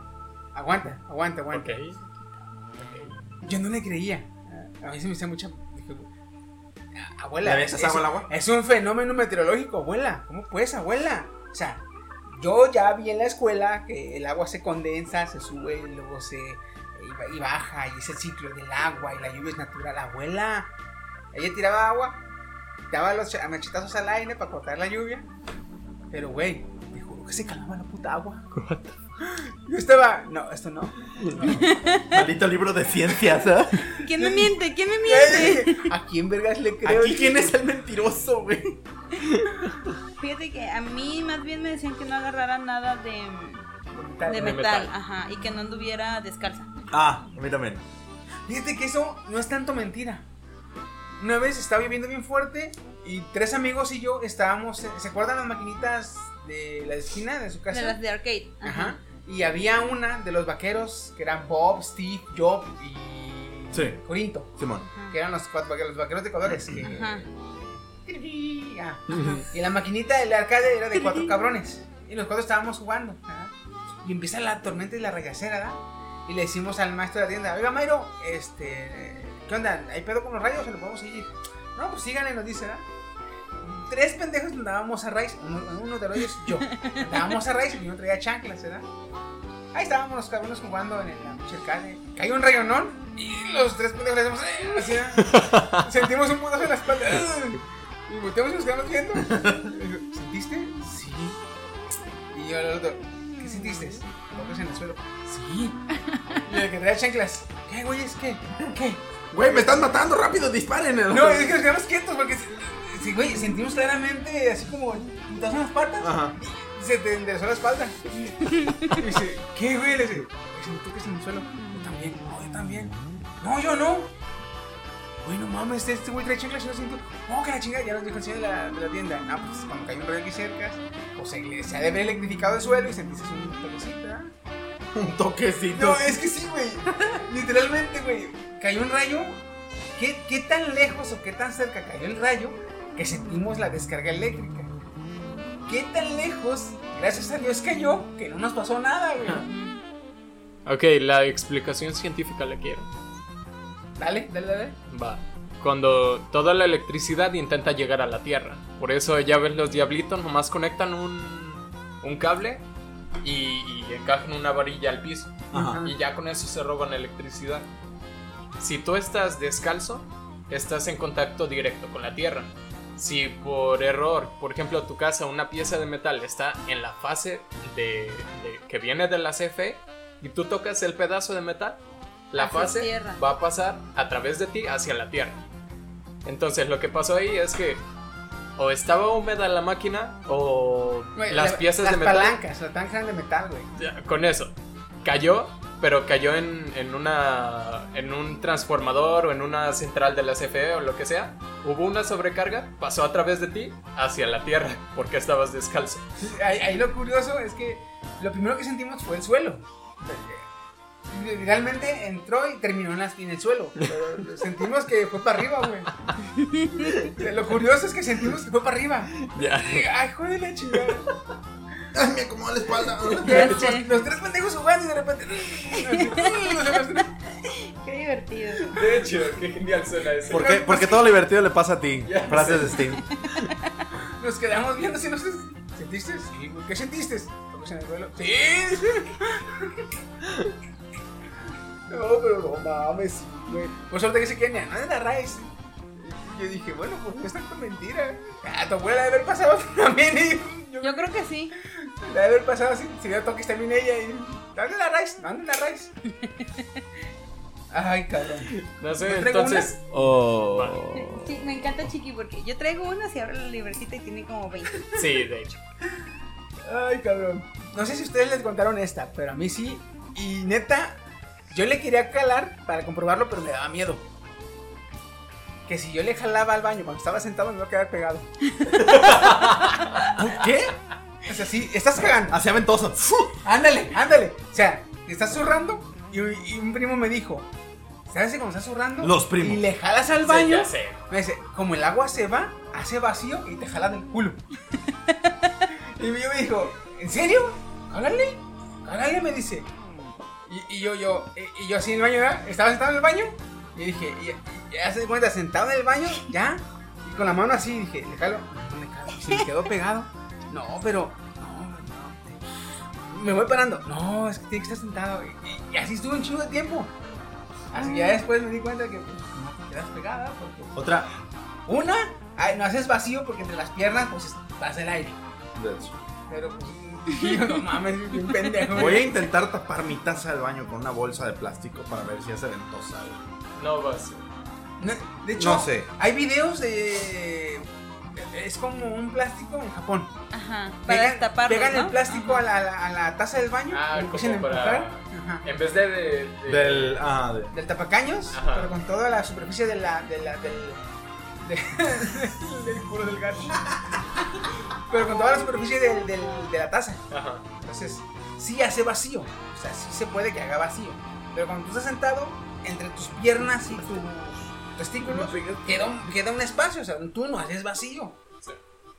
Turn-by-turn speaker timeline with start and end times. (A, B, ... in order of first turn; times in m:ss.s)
0:00.5-0:01.8 A
0:01.5-0:02.0 B
0:02.8-0:03.2 B
0:03.4-0:06.1 A
0:06.9-0:20.7 A
0:07.4-0:08.3 C
0:21.3-0:22.2 A
0:22.9-0:25.3 A
0:26.1-0:28.4 A
0:28.5-0:29.0 B
0:29.2-0:31.6 A
0:31.4-0:33.9 C
0:31.4-0:32.2 D
0:34.0-0:35.9 D
0:34.1-0:34.5 A
0:35.0-0:37.5 A
0:36.8-0:38.8 C
0:40.2-0:43.6 D
0:43.9-0:44.6 A
0:44.2-0:46.7 D
0:44.4-0:44.9 B
0:46.9-0:47.8 C
0:48.4-0:50.2 A
0:51.2-0:58.0 A
0:57.7-0:59.0 D
0:58.6-1:04.5 A
1:03.7-1:04.0 C
1:04.6-1:04.9 C
1:05.1-1:07.3 A
1:06.5-1:06.7 C
1:06.8-1:07.2 D
1:08.0-1:13.5 A
1:09.1-1:09.4 B
1:11.0-1:11.3 D
1:14.0-1:22.8 A
1:23.6-1:28.9 A
1:26.7-1:27.0 D
1:29.7-1:41.4 A
1:35.2-1:35.8 B
1:42.3-1:45.8 A
1:46.4-1:49.9 A
1:49.3-1:51.6 C
1:51.1-1:58.0 A
1:56.0-1:56.4 C
1:58.3-1:59.0 D
1:58.9-2:04.1 A
2:05.2-2:14.3 A
2:14.9-2:16.2 C
2:15.7-2:19.4 A
2:20.0-2:24.7 A
2:25.7-2:29.5 A
2:29.4-2:29.8 D
2:30.6-2:32.9 B
2:34.0-2:34.8 A
2:34.9-2:42.6 B
2:43.2-2:47.7 B
2:45.5-2:45.9 C
2:48.6-3:05.4 B
3:02.3-3:03.2 D
3:06.2-3:07.8 B
3:08.6-3:12.4 B
3:11.2-3:13.7 A
3:13.8-3:26.1 B
3:26.2-3:30.4 A
3:31.1-3:35.9 A
3:36.2-3:37.0 D
3:37.0-3:41.1 A
3:39.2-3:39.9 B
3:41.9-3:43.6 C
3:43.1-3:47.1 A
3:43.2-3:43.9 D
3:45.8-3:46.8 D
3:47.4-3:48.8 D
3:48.7-3:50.6 B
3:50.3-3:53.0 C
3:50.3-3:51.1 A
3:52.0-3:53.0 B
3:54.2-3:59.8 A
4:01.9-4:11.1 A
4:10.8-4:11.5 D
4:12.0-4:15.9 A
4:16.3-4:16.6 D
4:17.7-4:19.8 A
4:18.5-4:20.8 B
4:19.9-4:21.4 C
4:20.9-4:24.9 D
4:24.9-4:25.6 B
4:26.6-4:31.0 A
4:31.5-4:34.0 A
4:35.6-4:38.3 A
4:38.8-4:40.0 B
4:40.1-4:40.8 C
4:41.2-4:42.4 A
4:42.2-4:43.4 C
4:43.4-4:47.5 A
4:48.1-4:54.4 A
4:49.0-4:49.6 C
4:50.2-4:51.0 B
4:55.7-4:59.7 A
5:00.4-5:12.4 A
5:13.1-5:16.9 A
5:17.7-5:20.8 A
5:17.8-5:18.2 D
5:20.7-5:21.1 C
5:21.7-5:25.2 A
5:25.5-5:26.0 C
5:26.3-5:29.2 A
5:28.7-5:33.2 C
5:33.6-5:34.3 B
5:34.8-5:40.1 A
5:35.3-5:35.9 C
5:40.3-5:42.4 D
5:40.9-5:45.4 A
5:43.7-5:47.1 B
5:46.5-5:47.5 C
5:47.5-5:50.8 A
5:48.3-5:48.7 B
5:51.4-5:54.2 A
5:54.9-5:57.0 A
5:57.1-5:57.4 B
5:57.6-6:08.2 A
6:05.0-6:05.8 C